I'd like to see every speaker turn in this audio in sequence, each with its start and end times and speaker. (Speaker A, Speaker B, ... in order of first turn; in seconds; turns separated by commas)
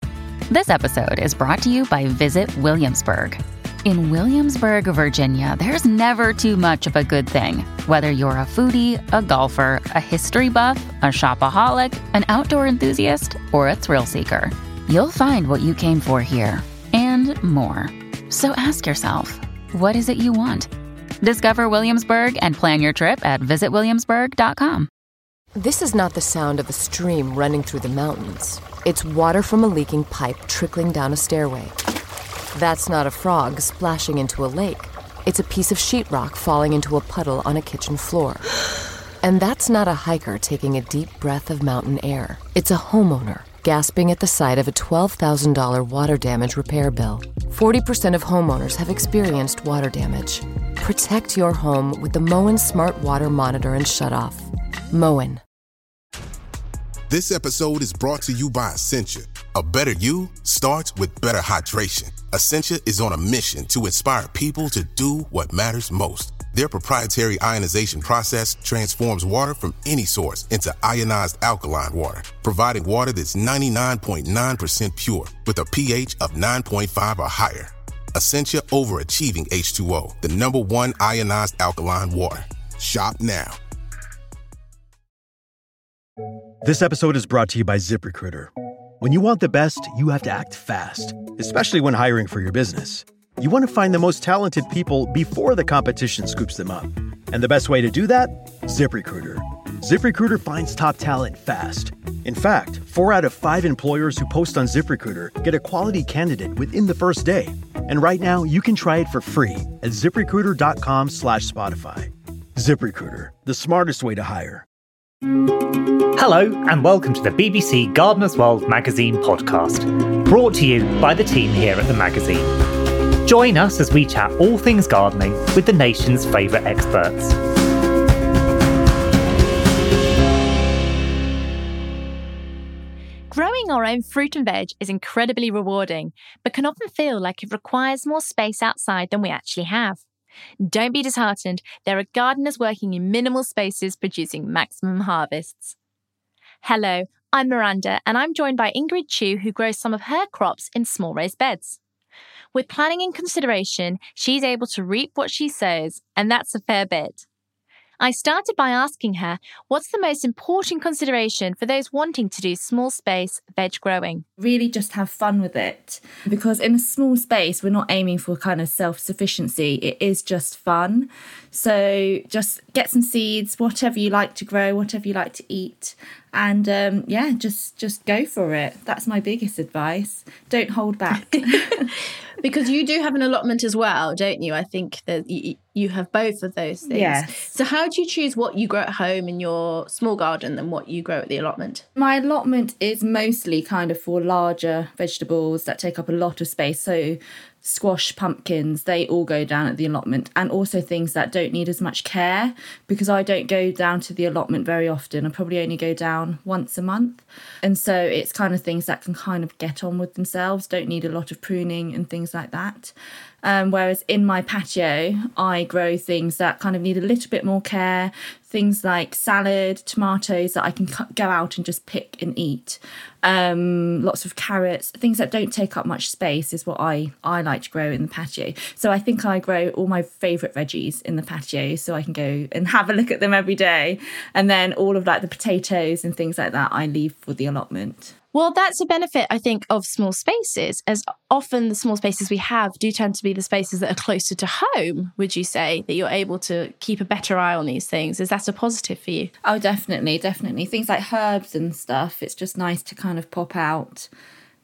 Speaker A: 0.5-20.7, Speaker A: 21.2-24.9, Speaker B: 25.5-31.8, Speaker B: 32.5-38.5, Speaker B: 39.2-55.4, Speaker C: 57.1-83.6, Speaker D: 86.6-114.6, Speaker E: 116.1-122.5, Speaker E: 123.2-127.4, Speaker F: 133.3-140.0, Speaker F: 140.6-145.7, Speaker F: 146.6-151.8, Speaker F: 152.5-157.2, Speaker F: 158.0-164.2, Speaker G: 164.4-181.9, Speaker H: 182.4-191.8, Speaker G: 186.8-187.5, Speaker G: 191.9-238.1, Speaker H: 238.3-249.3, Speaker G: 249.4-254.1